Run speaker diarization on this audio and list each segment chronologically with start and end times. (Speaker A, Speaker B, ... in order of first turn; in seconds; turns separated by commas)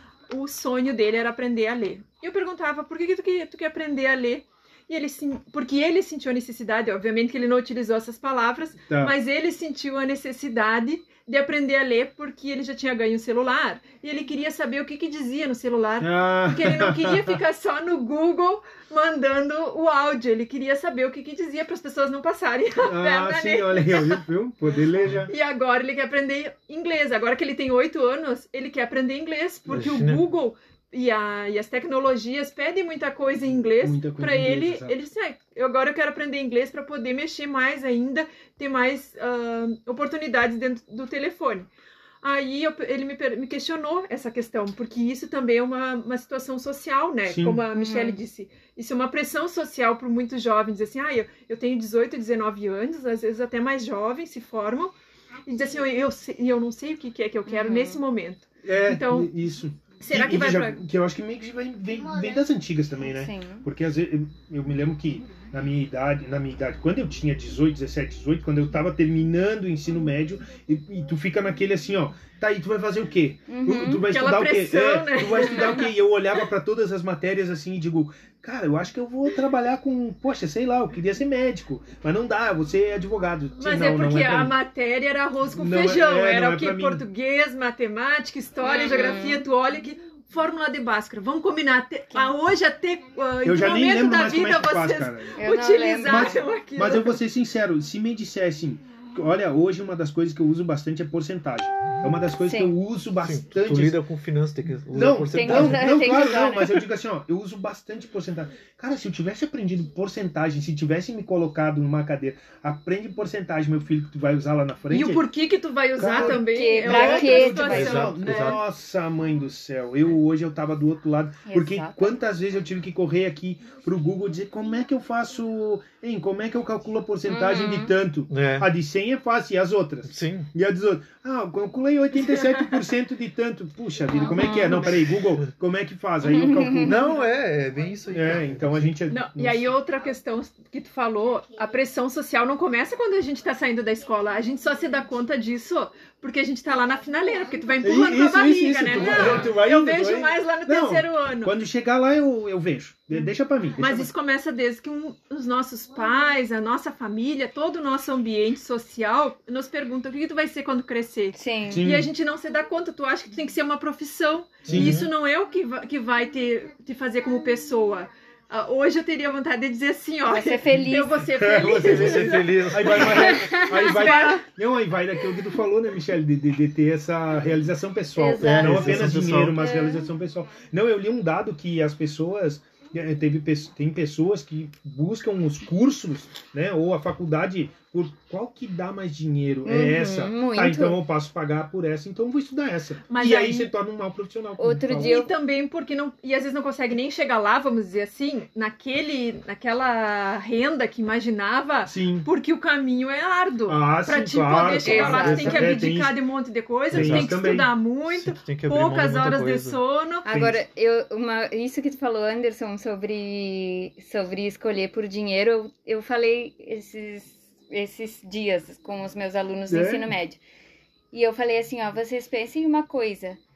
Speaker A: 0.3-24.2, Speaker B: 8.9-9.1, Speaker B: 16.0-17.4, Speaker B: 22.8-25.3, Speaker A: 25.3-41.7, Speaker C: 29.7-30.2, Speaker B: 33.8-35.1, Speaker A: 42.2-54.9, Speaker B: 47.2-47.6, Speaker D: 47.7-48.2, Speaker A: 55.5-59.3, Speaker D: 57.5-58.0, Speaker B: 58.6-84.6, Speaker A: 60.0-60.8, Speaker D: 63.1-63.6, Speaker D: 73.5-74.1, Speaker A: 74.1-75.9, Speaker D: 75.5-75.8, Speaker A: 83.6-97.2, Speaker B: 85.5-87.0, Speaker D: 88.6-89.5, Speaker B: 93.4-95.4, Speaker D: 95.4-96.4, Speaker B: 96.0-104.0, Speaker D: 102.4-102.8, Speaker C: 103.2-106.1, Speaker B: 104.9-115.2, Speaker D: 105.3-106.8, Speaker A: 114.9-118.6, Speaker B: 116.0-137.2, Speaker D: 116.1-118.1, Speaker C: 117.7-118.6, Speaker D: 121.4-122.2, Speaker D: 127.3-127.9, Speaker C: 128.3-128.7, Speaker C: 130.0-130.5, Speaker A: 132.2-132.8, Speaker D: 134.1-134.9, Speaker D: 136.2-137.0, Speaker C: 136.8-138.9, Speaker B: 138.1-139.7, Speaker A: 139.1-151.6, Speaker B: 147.8-154.1, Speaker A: 153.8-174.4, Speaker D: 161.3-161.8, Speaker B: 161.7-162.1, Speaker B: 164.6-165.1, Speaker C: 164.7-164.9, Speaker D: 170.3-171.2, Speaker B: 171.4-195.2, Speaker C: 171.6-173.3, Speaker D: 172.9-174.4, Speaker D: 178.2-180.1, Speaker C: 178.4-179.6, Speaker D: 189.6-191.0, Speaker A: 193.1-193.7, Speaker D: 194.6-195.3, Speaker A: 194.9-210.2, Speaker B: 201.8-202.3, Speaker B: 203.7-206.2, Speaker D: 204.8-205.8, Speaker B: 206.9-207.7, Speaker C: 206.9-207.4, Speaker C: 208.1-210.6, Speaker D: 210.2-220.4, Speaker B: 219.7-220.1, Speaker D: 221.1-223.4